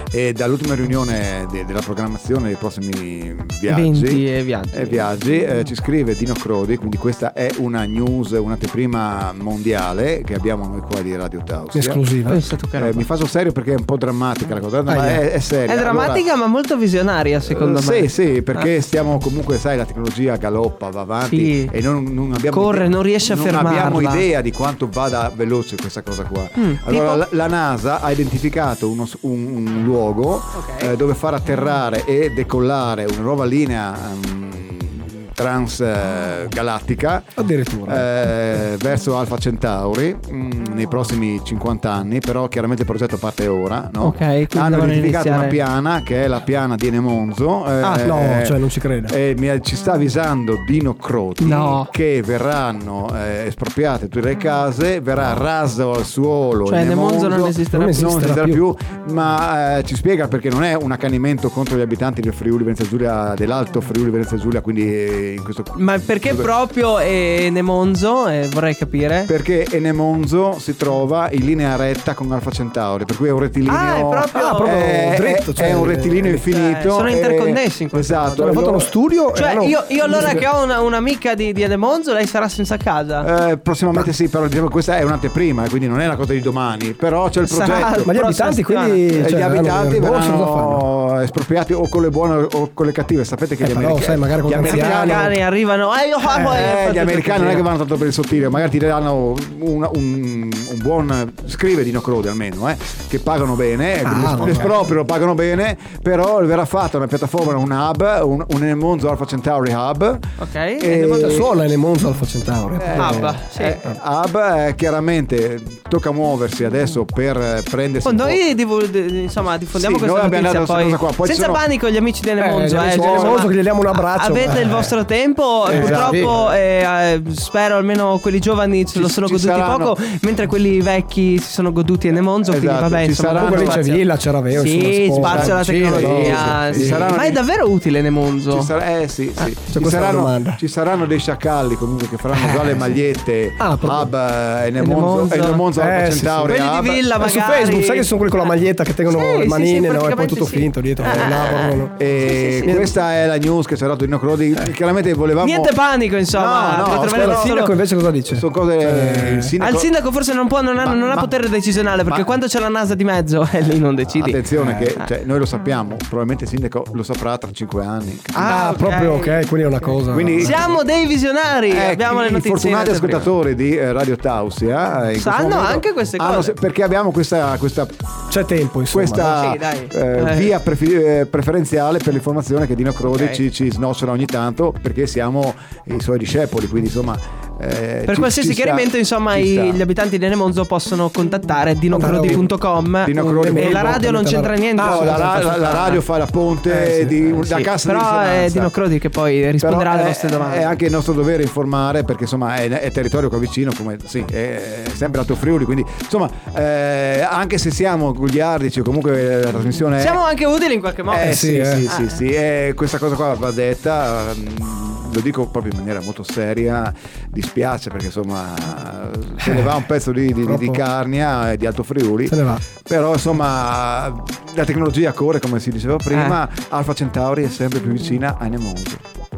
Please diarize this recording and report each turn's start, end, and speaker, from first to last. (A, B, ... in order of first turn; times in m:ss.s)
0:00.1-0:12.0 A
0:03.7-0:05.0 B
0:11.7-0:12.4 C
0:12.3-0:13.0 B
0:12.8-0:16.2 A
0:14.9-0:15.2 C
0:15.7-0:18.7 B
0:17.4-0:37.3 A
0:21.2-0:21.7 B
0:22.5-0:24.2 B
0:26.6-0:27.2 B
0:30.5-0:30.9 B
0:37.4-0:38.1 C
0:37.9-0:48.6 A
0:44.0-0:45.6 B
0:47.8-0:48.0 B
0:48.0-0:49.1 C
0:49.1-1:06.5 A
0:51.4-0:51.9 B
0:56.6-0:58.1 B
0:57.7-0:58.6 C
1:05.7-1:09.3 B
1:09.3-1:18.9 A
1:13.6-1:14.7 B
1:14.3-1:16.4 C
1:16.4-1:18.6 B
1:18.4-1:20.4 C
1:19.3-1:23.3 B
1:20.1-1:20.4 A
1:23.2-1:28.1 A
1:27.4-1:29.0 B
1:28.0-1:30.8 C
1:29.1-1:35.3 A
1:33.6-1:35.3 C
1:34.6-1:37.7 B
1:36.3-1:50.2 A
1:44.0-1:44.7 C
1:50.4-1:51.5 B
1:50.8-1:51.5 A
1:51.2-1:53.9 C
1:52.8-1:58.4 A
1:53.0-1:53.8 B
1:58.0-2:18.7 B
1:59.7-2:01.6 A
2:02.4-2:04.9 C
2:02.9-2:03.4 A
2:05.6-2:06.5 A
2:05.7-2:06.4 C
2:08.9-2:09.9 A
2:12.4-2:13.8 A
2:13.3-2:17.1 C
2:15.1-2:17.4 A
2:18.5-2:27.1 A
2:19.7-2:20.6 C
2:22.3-2:22.8 C
2:23.6-2:24.1 C
2:24.8-2:25.6 B
2:25.7-2:26.6 C
2:26.4-2:28.5 B
2:27.2-2:32.1 C
2:29.1-2:32.8 B
2:31.1-2:31.4 A
2:32.0-2:35.7 A
2:32.6-2:32.9 C
2:35.4-2:37.7 B
2:36.3-2:37.6 A
2:37.0-2:39.5 C
2:38.3-2:39.9 A
2:39.6-2:44.4 B
2:40.8-2:41.3 A
2:44.1-2:48.7 A
2:44.6-2:44.9 C
2:48.3-2:49.4 B
2:48.4-2:50.7 C
2:50.1-2:50.8 A
2:50.4-2:53.3 B
2:51.7-2:58.0 A
2:55.1-2:56.5 B
2:58.3-2:59.5 C
2:58.9-3:09.8 A
2:59.2-3:00.5 B
3:03.1-3:03.4 B
3:08.1-3:16.0 B
3:11.9-3:12.5 C
3:13.0-3:14.0 A
3:13.0-3:15.9 C
3:14.8-3:18.7 A
3:16.7-3:17.4 C
3:17.4-3:20.8 B
3:19.6-3:30.2 A
3:30.0-3:32.1 B
3:31.1-3:49.0 A
3:31.2-3:31.9 C
3:39.4-3:39.8 C
3:40.4-3:40.8 C
3:42.3-3:42.6 C
3:46.1-3:46.4 B